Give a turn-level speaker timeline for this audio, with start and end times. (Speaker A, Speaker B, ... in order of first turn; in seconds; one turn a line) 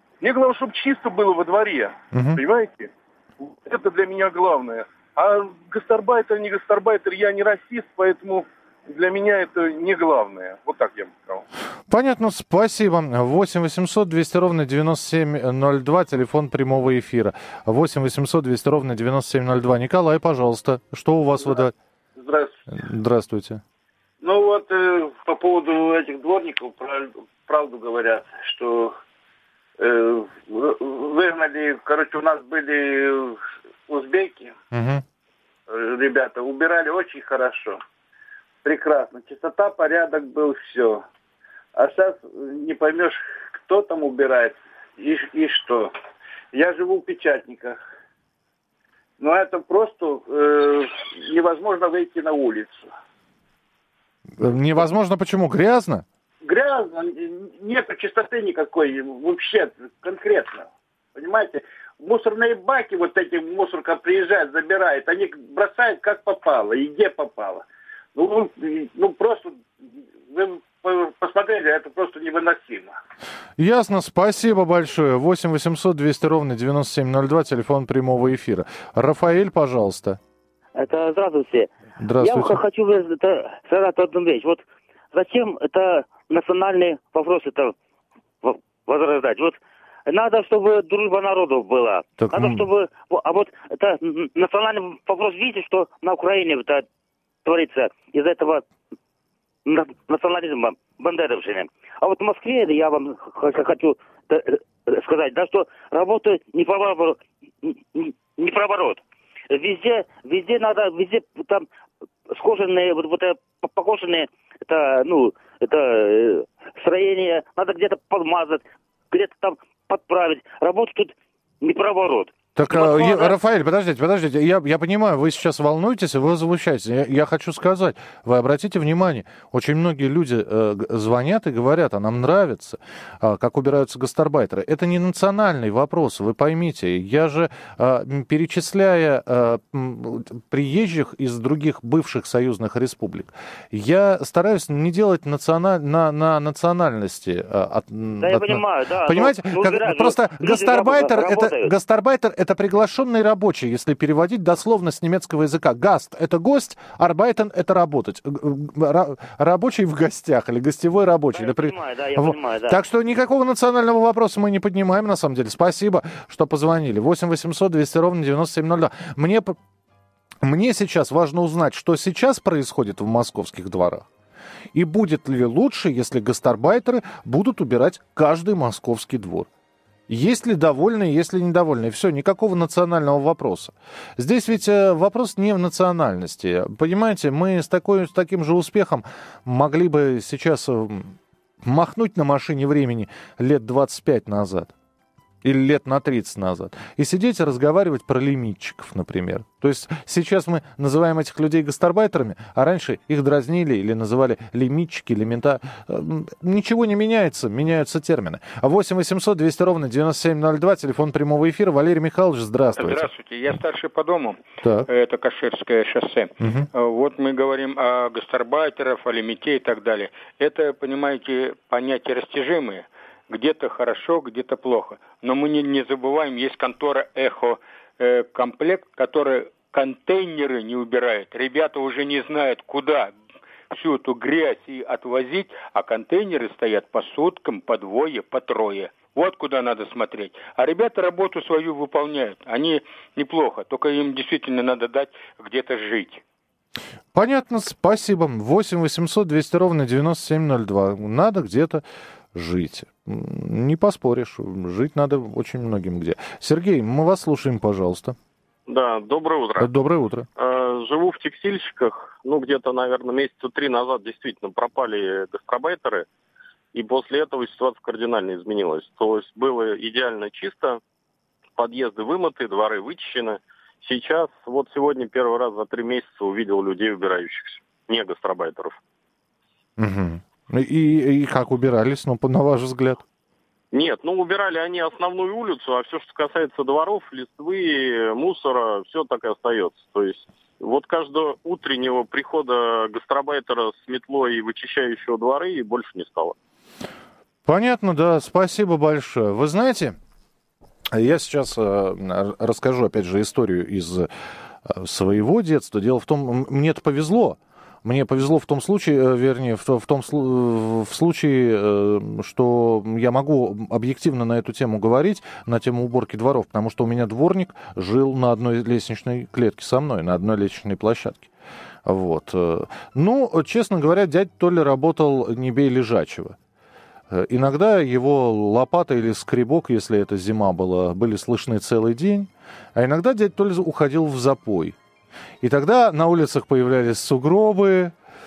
Speaker A: 0.2-11.4
Speaker B: 2.1-2.4
Speaker B: 11.9-21.7
Speaker C: 22.2-22.6
Speaker B: 22.7-23.6
Speaker C: 24.2-29.0
Speaker C: 29.8-34.5
Speaker B: 34.7-35.0
Speaker C: 35.7-37.8
Speaker C: 38.6-41.0
Speaker C: 41.8-45.9
Speaker C: 46.5-47.8
Speaker C: 49.2-52.9
Speaker B: 54.4-56.0
Speaker C: 56.4-69.7
Speaker C: 70.3-72.9
Speaker B: 73.6-80.2
Speaker D: 80.8-87.8
Speaker B: 82.0-82.6
Speaker D: 88.4-96.9
Speaker B: 92.2-92.7
Speaker D: 97.5-98.7
Speaker D: 99.7-111.7
Speaker D: 112.3-123.3
Speaker B: 122.6-169.6
Speaker D: 148.2-151.7
Speaker D: 161.3-162.8
Speaker B: 170.4-174.1
Speaker B: 174.7-179.5
Speaker B: 180.1-194.7
Speaker B: 195.4-213.1
Speaker E: 212.8-233.1
Speaker B: 214.6-214.9
Speaker B: 216.4-216.7
Speaker E: 233.7-246.2
Speaker B: 247.1-258.2
Speaker F: 258.7-259.7
Speaker B: 259.6-260.3
Speaker F: 260.4-266.1
Speaker F: 266.7-270.8
Speaker F: 271.6-278.8
Speaker B: 279.8-283.0
Speaker F: 283.7-296.4
Speaker B: 297.5-300.0
Speaker B: 300.9-304.1
Speaker B: 304.6-321.3
Speaker B: 321.9-326.4
Speaker B: 327.1-334.8
Speaker B: 335.4-337.9